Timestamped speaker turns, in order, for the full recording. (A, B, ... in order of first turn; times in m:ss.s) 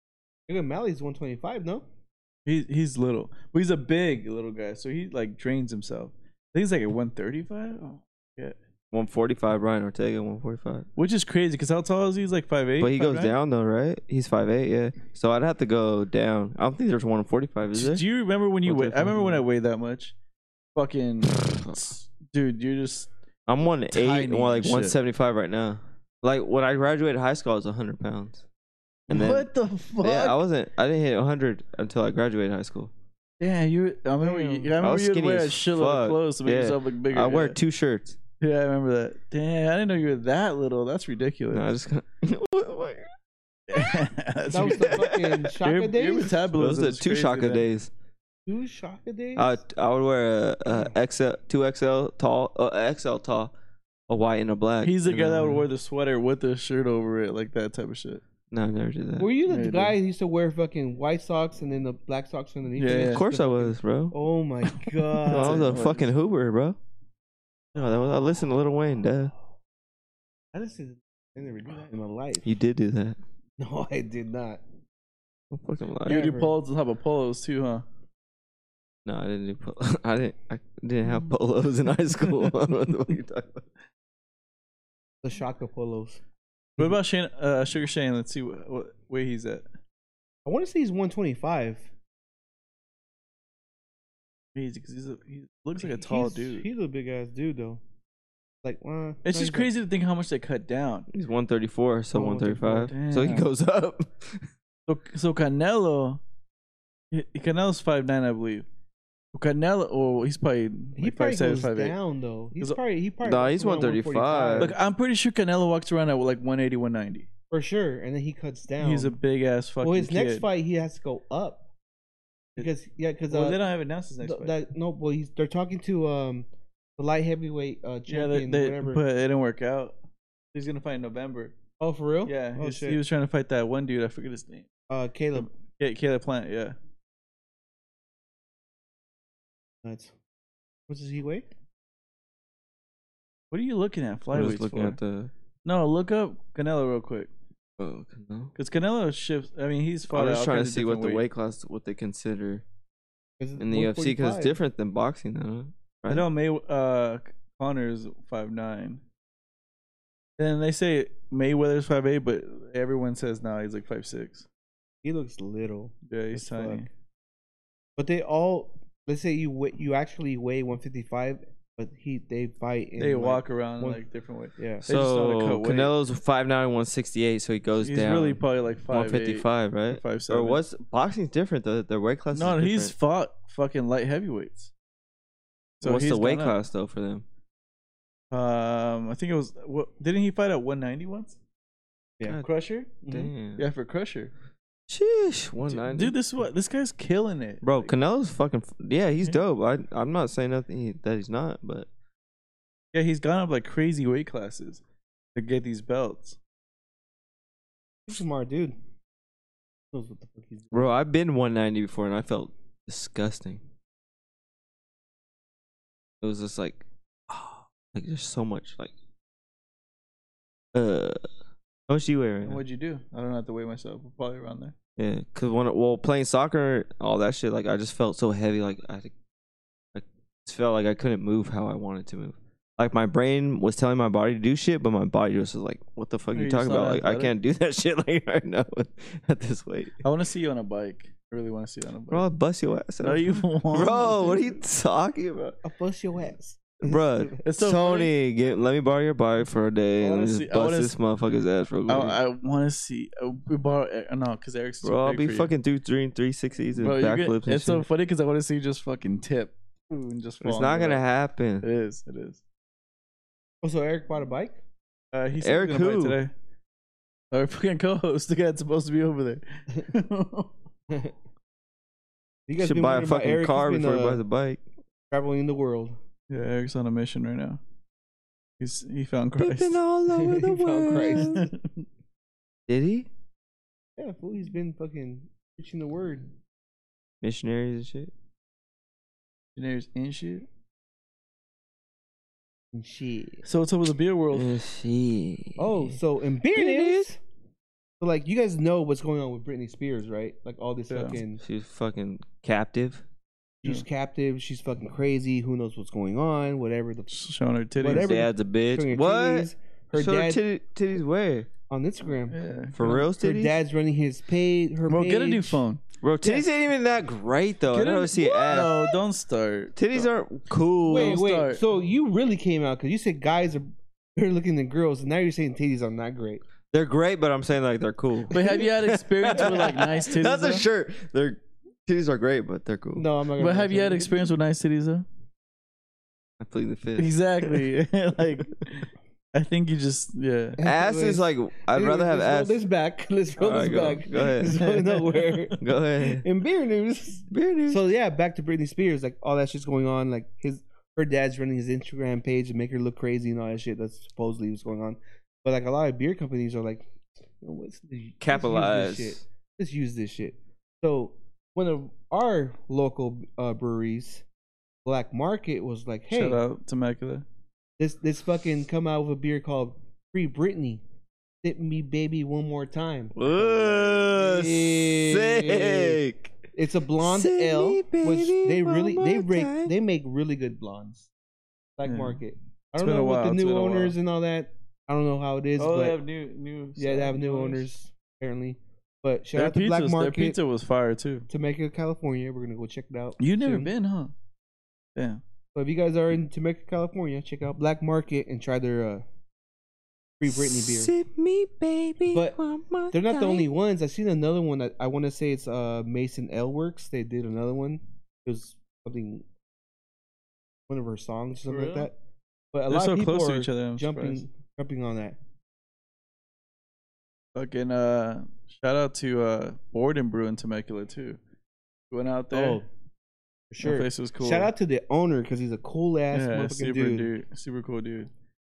0:00.5-0:01.8 A
0:02.5-0:08.6 B
0:08.9-0:10.9 C
0:11.0-0:13.3 B
0:12.8-0:18.0 C
0:17.7-0:20.1 B
0:18.6-0:19.4 C
0:20.8-0:23.1 B
0:21.3-0:21.8 C
0:23.5-0:28.4 C
0:23.9-0:25.0 B
0:29.1-0:29.5 C
0:29.1-0:30.4 B
0:30.0-0:32.9 C
0:33.4-0:37.6 B
0:34.2-0:34.7 A
0:34.8-0:38.2 C
0:38.4-0:41.7 B
0:41.5-0:43.1 C
0:43.7-0:45.1 B
0:44.5-0:46.4 A
0:44.6-0:45.5 C
0:45.6-0:47.6 B
0:46.6-0:47.9 C
0:48.5-0:49.5 A
0:49.4-0:53.5 C
0:54.1-0:55.7 C
0:54.8-0:58.2 B
0:58.5-0:59.3 C
0:59.2-1:05.8 A
0:59.5-1:00.0 B
1:02.8-1:03.2 B
1:02.9-1:04.2 C
1:04.7-1:06.1 B
1:05.3-1:06.8 C
1:07.8-1:09.3 C
1:10.5-1:12.5 A
1:12.4-1:13.2 C
1:13.6-1:14.6 A
1:15.5-1:16.3 C
1:16.0-1:17.8 B
1:16.1-1:16.6 A
1:19.0-1:23.7 C
1:25.2-1:26.2 A
1:26.8-1:29.6 B
1:30.4-1:31.8 A
1:34.6-1:36.7 B
1:35.8-1:37.8 A
1:38.6-1:39.7 A
1:39.2-1:41.1 B
1:41.1-1:44.5 C
1:42.2-1:43.5 B
1:44.9-1:46.2 B
1:47.1-1:48.7 B
1:49.3-1:52.0 B
1:51.0-1:54.8 A
1:53.2-1:54.7 C
1:54.6-1:57.3 B
1:57.5-1:59.2 A
1:58.8-2:00.5 B
1:59.8-2:01.6 A
2:02.6-2:03.6 A
2:03.3-2:04.6 B
2:04.2-2:09.0 A
2:08.1-2:10.0 B
2:10.5-2:11.6 B
2:11.8-2:13.0 A
2:12.3-2:14.7 B
2:14.9-2:15.5 A
2:15.4-2:16.8 B
2:19.8-2:20.1 A
2:20.9-2:21.5 A
2:23.5-2:25.0 B
2:24.3-2:25.3 C
2:25.6-2:27.3 B
2:27.8-2:28.5 C
2:28.6-2:31.2 B
2:30.1-2:32.6 C
2:33.4-2:34.5 A
2:33.6-2:36.2 C
2:36.1-2:39.0 B
2:40.4-2:44.5 B
2:45.0-2:46.9 A
2:46.1-2:46.9 B
2:48.0-2:54.0 A
2:53.0-2:56.0 B
2:54.6-2:54.8 A
2:54.9-3:02.9 C
2:57.8-3:00.6 B
3:02.3-3:04.7 B
3:05.8-3:06.6 B
3:05.8-3:07.2 C
3:08.3-3:11.4 B
3:12.4-3:12.9 B
3:13.0-3:13.3 A
3:13.1-3:13.6 C
3:13.6-3:14.3 B
3:14.9-3:16.1 C
3:15.7-3:17.9 B
3:17.6-3:21.9 C
3:22.9-3:24.8 B
3:25.4-3:26.4 B
3:28.1-3:28.8 A
3:29.9-3:30.9 A
3:30.7-3:33.6 C
3:36.2-3:38.9 C
3:40.7-3:41.2 C
3:41.9-3:42.6 C
3:42.4-3:44.8 B
3:45.0-3:49.1 C
3:49.9-4:00.0 C
3:56.3-3:57.3 B
4:00.0-4:02.2 B
4:02.1-4:05.6 C
4:03.0-4:04.4 B
4:05.6-4:07.4 A
4:06.8-4:12.2 C
4:07.4-4:08.1 B
4:10.0-4:11.0 B
4:11.9-4:15.5 B
4:14.8-4:17.8 C
4:16.8-4:21.0 B
4:20.4-4:21.7 C
4:21.6-4:22.4 B
4:23.6-4:24.6 A
4:25.1-4:26.3 B
4:25.4-4:26.2 C
4:27.3-4:30.5 B
4:32.5-4:34.2 A
4:32.6-4:34.6 C
4:35.1-4:36.0 A
4:36.3-4:37.6 B
4:38.6-4:39.8 B
4:39.4-4:41.5 C
4:40.1-4:41.4 A
4:41.2-4:41.9 B
4:42.7-4:43.1 C
4:44.0-4:46.3 A
4:47.2-4:48.1 C
4:49.6-4:50.5 B
4:52.7-4:53.4 A
4:53.4-4:54.6 B
4:54.3-4:56.0 C
4:55.6-4:57.2 A
4:56.5-4:57.1 C
4:58.0-5:01.4 A
5:00.9-5:01.2 B
5:01.4-5:03.0 C
5:03.6-5:07.2 A
5:07.1-5:08.1 B
5:07.8-5:10.4 A
5:07.9-5:11.5 C
5:11.7-5:15.6 A
5:12.3-5:13.0 B
5:12.8-5:13.6 C
5:14.9-5:15.8 B
5:16.0-5:18.8 C
5:16.2-5:16.5 A
5:17.7-5:20.1 B
5:19.8-5:21.2 C
5:20.9-5:26.4 A
5:20.9-5:21.6 B
5:26.7-5:33.1 C
5:28.3-5:30.7 B
5:33.0-5:34.3 A
5:33.4-5:35.1 B
5:36.4-5:37.7 C
5:37.0-5:40.6 B
5:40.6-5:45.6 A
5:40.6-5:42.6 C
5:43.4-5:44.6 C
5:44.4-5:45.5 B
5:45.6-5:46.2 C
5:46.1-5:56.9 A
5:47.3-5:47.9 C
5:57.4-6:04.2 A
5:58.2-5:59.2 C
6:04.8-6:06.4 A
6:06.1-6:07.3 B
6:07.8-6:10.8 A
6:11.4-6:16.0 A
6:13.2-6:16.4 C
6:16.6-6:21.1 A
6:17.0-6:19.7 C
6:21.8-6:26.0 A
6:21.8-6:22.2 B
6:22.8-6:23.9 B
6:25.6-6:27.6 B
6:26.8-6:30.4 A
6:29.4-6:31.3 B
6:31.3-6:33.7 A
6:33.2-6:34.1 B
6:35.0-6:35.2 B
6:35.6-6:39.0 A
6:40.2-6:40.9 A
6:40.3-6:43.5 C
6:42.1-6:42.4 A
6:42.9-6:49.2 A
6:50.7-6:52.0 A
6:51.5-6:51.9 B
6:52.5-6:55.2 A
6:52.7-6:54.2 B
6:57.4-7:01.2 B
7:01.9-7:02.6 B
7:02.3-7:02.7 A
7:03.5-7:07.1 A
7:03.6-7:04.5 B
7:06.1-7:08.1 B